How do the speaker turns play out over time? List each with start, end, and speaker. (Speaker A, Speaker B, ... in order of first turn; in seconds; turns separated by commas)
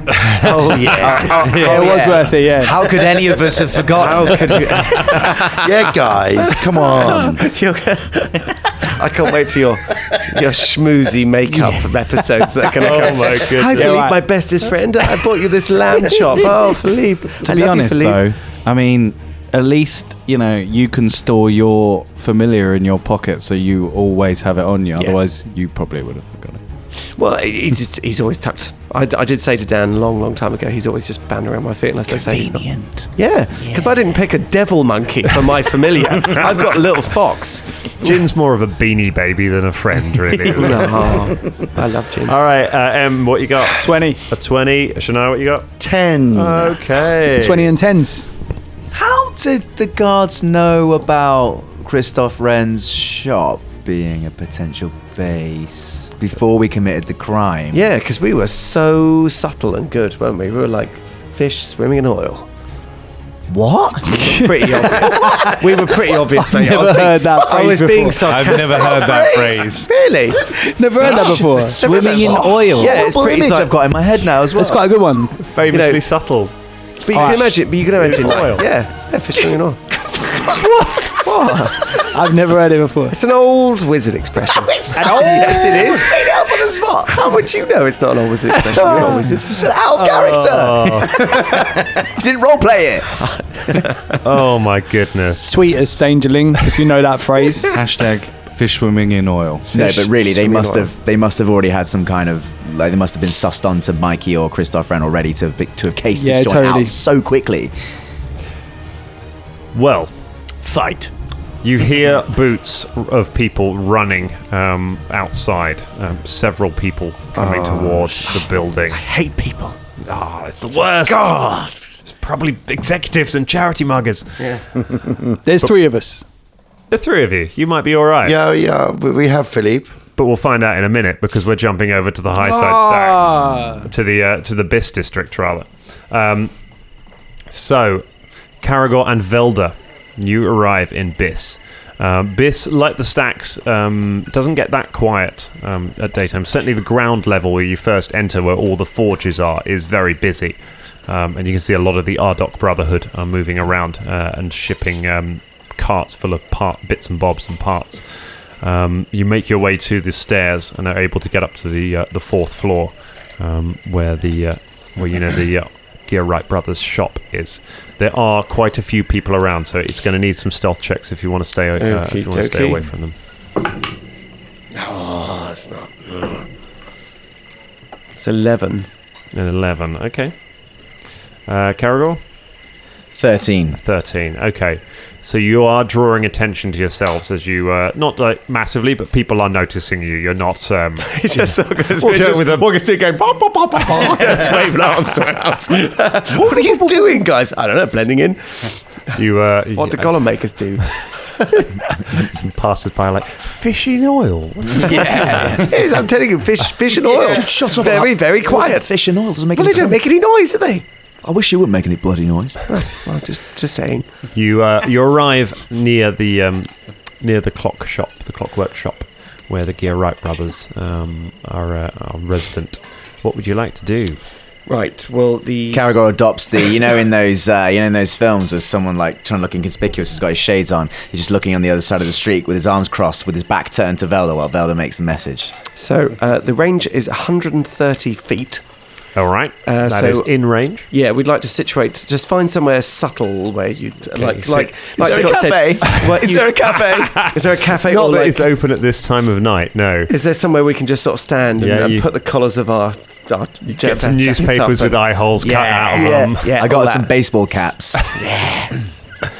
Speaker A: 0.4-18.2, Speaker B: 0.8-4.9, Speaker C: 1.0-1.3, Speaker D: 1.5-2.8, Speaker C: 5.5-7.4, Speaker E: 12.8-14.1, Speaker D: 13.8-14.2, Speaker F: 17.4-26.6, Speaker A: 27.0-38.1, Speaker E: 38.0-41.2, Speaker A: 40.5-42.3, Speaker E: 42.2-45.7, Speaker D: 43.8-44.2, Speaker C: 45.8-46.8, Speaker E: 46.3-47.7, Speaker D: 47.4-48.3, Speaker B: 48.9-57.8, Speaker A: 57.7-62.5, Speaker B: 63.5-64.2, Speaker A: 64.1-70.4, Speaker D: 66.5-68.6, Speaker F: 68.2-69.9, Speaker D: 70.7-71.8, Speaker A: 71.1-73.8, Speaker F: 71.8-73.0, Speaker B: 72.1-74.9, Speaker D: 74.5-75.4, Speaker E: 75.5-76.5, Speaker A: 75.7-76.0, Speaker A: 77.0-79.8, Speaker D: 77.1-77.6, Speaker E: 78.0-78.6, Speaker A: 81.1-82.1, Speaker D: 82.1-83.2, Speaker A: 83.1-86.2, Speaker D: 85.0-85.6, Speaker B: 85.0-85.4, Speaker B: 86.1-87.1, Speaker A: 87.0-89.7, Speaker B: 88.8-93.1, Speaker E: 90.0-91.2, Speaker A: 93.2-94.2, Speaker E: 94.2-95.5, Speaker D: 95.5-97.7, Speaker F: 97.7-99.7, Speaker B: 99.7-107.7, Speaker A: 99.7-100.9, Speaker D: 106.1-107.0, Speaker E: 109.7-110.1, Speaker E: 111.6-119.0, Speaker A: 117.4-117.7, Speaker A: 119.0-119.7, Speaker E: 120.0-124.4, Speaker A: 121.1-121.8, Speaker D: 125.4-126.2, Speaker E: 126.9-128.4, Speaker C: 128.2-129.9, Speaker E: 130.2-136.5, Speaker E: 137.5-138.0, Speaker E: 138.6-173.2, Speaker A: 171.8-172.8, Speaker A: 174.7-176.5, Speaker A: 178.2-178.9, Speaker E: 179.3-180.3, Speaker E: 181.5-182.2, Speaker B: 183.1-183.8, Speaker E: 183.8-192.7, Speaker A: 191.0-198.7, Speaker E: 193.8-194.7, Speaker E: 199.1-200.2, Speaker A: 199.8-201.6, Speaker E: 201.6-205.5, Speaker A: 204.8-208.9, Speaker B: 204.9-205.6, Speaker B: 207.1-210.1, Speaker A: 209.5-210.8, Speaker B: 211.2-212.6, Speaker A: 212.7-214.1, Speaker E: 214.3-224.2, Speaker A: 224.7-225.9, Speaker B: 225.7-235.5, Speaker A: 235.7-238.6, Speaker E: 239.1-240.9, Speaker A: 239.6-240.3, Speaker A: 240.9-248.5, Speaker E: 244.1-250.1, Speaker B: 245.0-245.9, Speaker A: 250.1-257.1, Speaker E: 251.6-252.1, Speaker E: 253.7-256.5, Speaker B: 255.9-258.0, Speaker A: 258.2-258.7